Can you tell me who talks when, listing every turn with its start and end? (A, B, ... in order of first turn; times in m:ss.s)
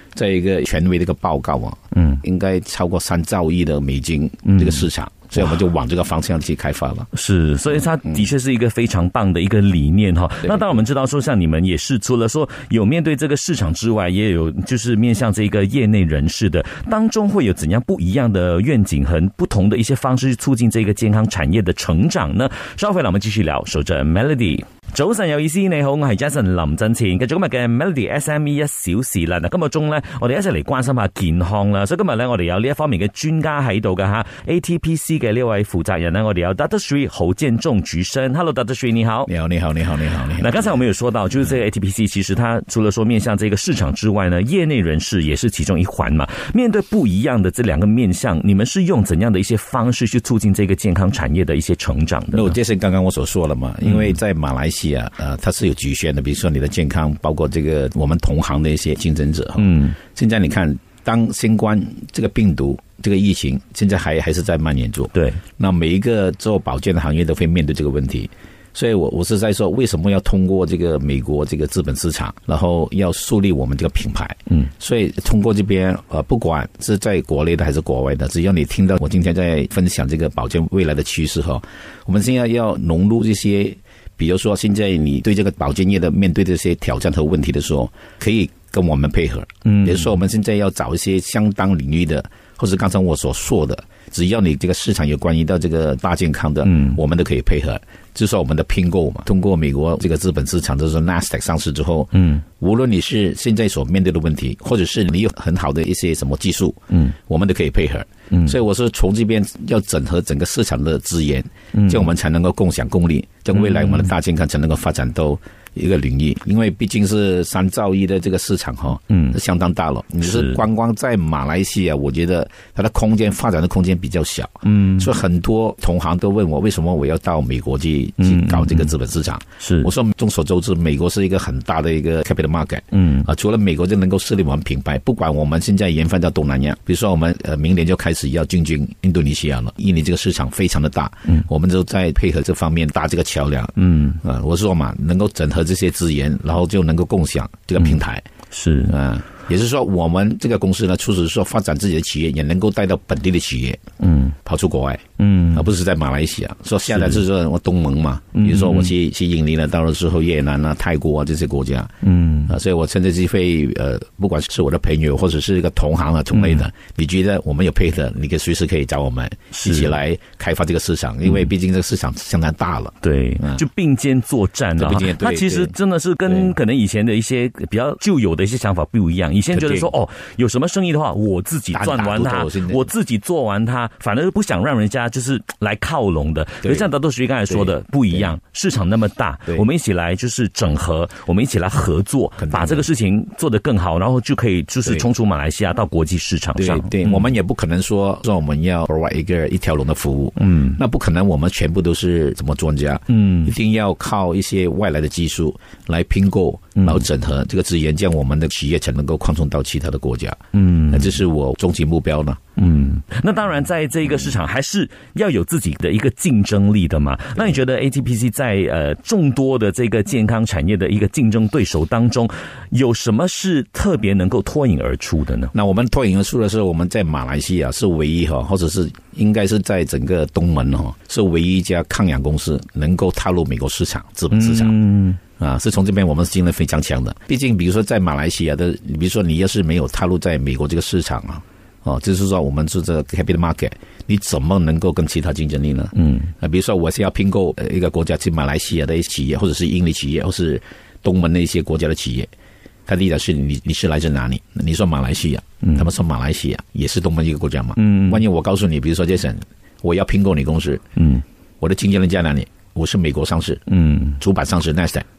0:00.1-0:07.1 A
0:04.5-0:04.8 B
0:07.1-0:39.3 B
0:10.4-0:10.7 A
0:39.3-0:40.8 A
0:40.3-0:52.6 B
0:52.3-2:28.2 A
0:53.8-0:54.1 B
0:59.6-1:00.0 B
1:05.1-1:05.4 B
1:29.6-1:30.1 B
1:36.7-1:37.0 B
1:42.1-1:42.4 B
1:51.8-1:52.0 B
1:53.6-1:54.1 B
1:59.1-1:59.4 B
2:00.2-2:00.6 B
2:04.6-2:05.1 B
2:08.2-2:08.9 B
2:09.6-2:09.9 B
2:12.9-2:13.2 B
2:23.8-2:24.2 B
2:28.5-2:28.9 B
2:28.9-2:33.8 A
2:34.0-2:34.3 B
2:34.4-2:41.9 A
2:35.2-2:35.7 B
2:36.9-2:37.2 B
2:38.4-2:38.9 B
2:42.0-2:42.5 B
2:42.5-2:53.6 A
2:46.3-2:46.6 B
2:49.5-2:50.0 B
2:53.0-3:17.3 B
2:54.8-2:55.7 A
2:56.3-2:56.5 A
2:59.5-2:59.9 A
3:01.7-3:02.8 A
3:07.5-3:08.2 A
3:12.4-3:12.9 A
3:16.6-3:32.4 A
3:20.4-3:20.8 B
3:23.1-3:23.5 B
3:26.8-3:27.0 B
3:30.5-3:31.2 B
3:32.6-3:45.5 B
3:45.5-3:54.7 A
3:54.3-3:55.2 B
3:55.4-4:12.3 A
4:06.0-4:06.3 B
4:12.9-4:20.8 A
4:17.8-4:18.2 B
4:21.0-4:21.2 B
4:21.6-4:25.0 A
4:23.7-4:24.2 B